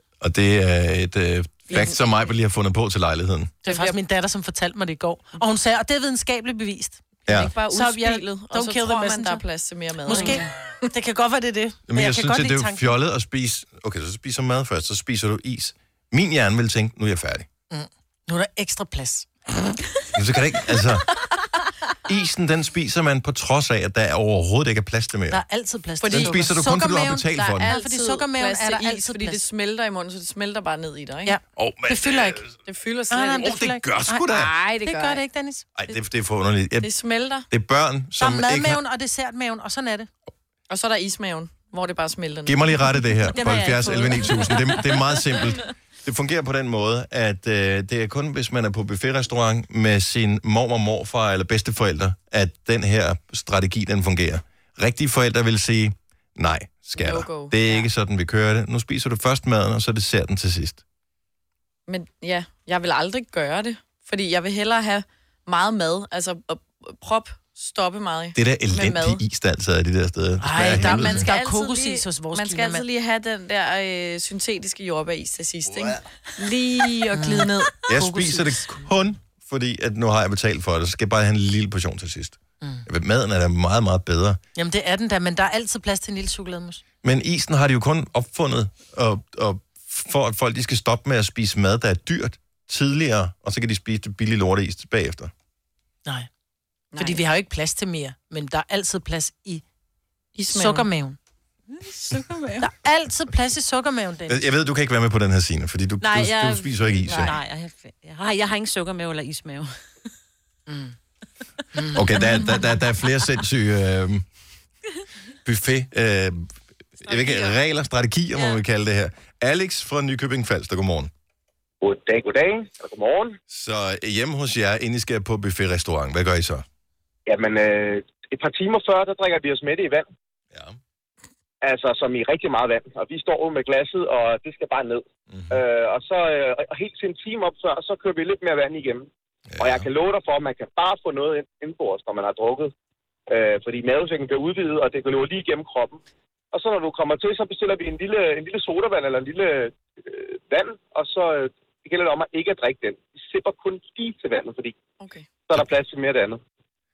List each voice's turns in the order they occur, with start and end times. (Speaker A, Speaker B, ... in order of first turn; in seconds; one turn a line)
Speaker A: 0.2-3.6
Speaker B: 1.7-2.0
Speaker B: 3.6-4.0
Speaker C: 3.6-7.0
Speaker B: 7.2-10.5
Speaker A: 7.3-7.5
Speaker C: 7.7-9.4
Speaker C: 10.0-12.9
Speaker A: 11.9-17.5
Speaker C: 17.7-19.3
Speaker A: 20.1-21.1
Speaker A: 22.1-25.4
Speaker C: 25.3-29.4
Speaker B: 26.0-26.6
Speaker A: 26.1-27.7
Speaker B: 27.3-31.4
Speaker C: 31.2-32.4
Speaker A: 31.6-32.5
Speaker B: 32.6-33.6
Speaker C: 33.1-35.6
Speaker A: 33.4-34.5
Speaker B: 34.3-35.2
Speaker A: 35.8-36.9
Speaker B: 36.8-37.5
Speaker A: 37.5-38.8
Speaker C: 38.2-40.1
Speaker B: 40.7-43.6
Speaker A: 42.4-60.8
Speaker D: 43.4-44.7
Speaker C: 43.6-43.9
Speaker B: 57.0-57.9
Speaker B: 61.9-69.2
Speaker A: 68.3-71.3
Speaker C: 70.4-72.8
Speaker B: 70.6-77.7
Speaker A: 75.7-76.0
Speaker C: 77.1-78.6
Speaker A: 77.9-84.4
Speaker C: 84.5-86.8
Speaker A: 87.0-95.3
Speaker B: 96.9-97.2
Speaker C: 97.0-99.6
Speaker B: 100.3-100.9
Speaker C: 100.5-101.2
Speaker D: 101.7-102.7
Speaker C: 102.6-104.4
Speaker A: 104.3-107.3
Speaker D: 106.0-109.8
Speaker B: 107.0-107.3
Speaker C: 110.7-110.9
Speaker A: 111.9-114.2
Speaker A: 115.4-121.1
Speaker D: 118.3-118.6
Speaker E: 121.8-123.4
Speaker A: 123.5-126.6
Speaker E: 127.3-130.1
Speaker A: 130.5-130.8
Speaker E: 131.6-139.1
Speaker A: 135.3-135.6
Speaker A: 139.5-139.9
Speaker E: 139.6-142.7
Speaker E: 143.3-146.0
Speaker E: 146.5-154.8
Speaker B: 155.0-155.3
Speaker E: 155.5-156.4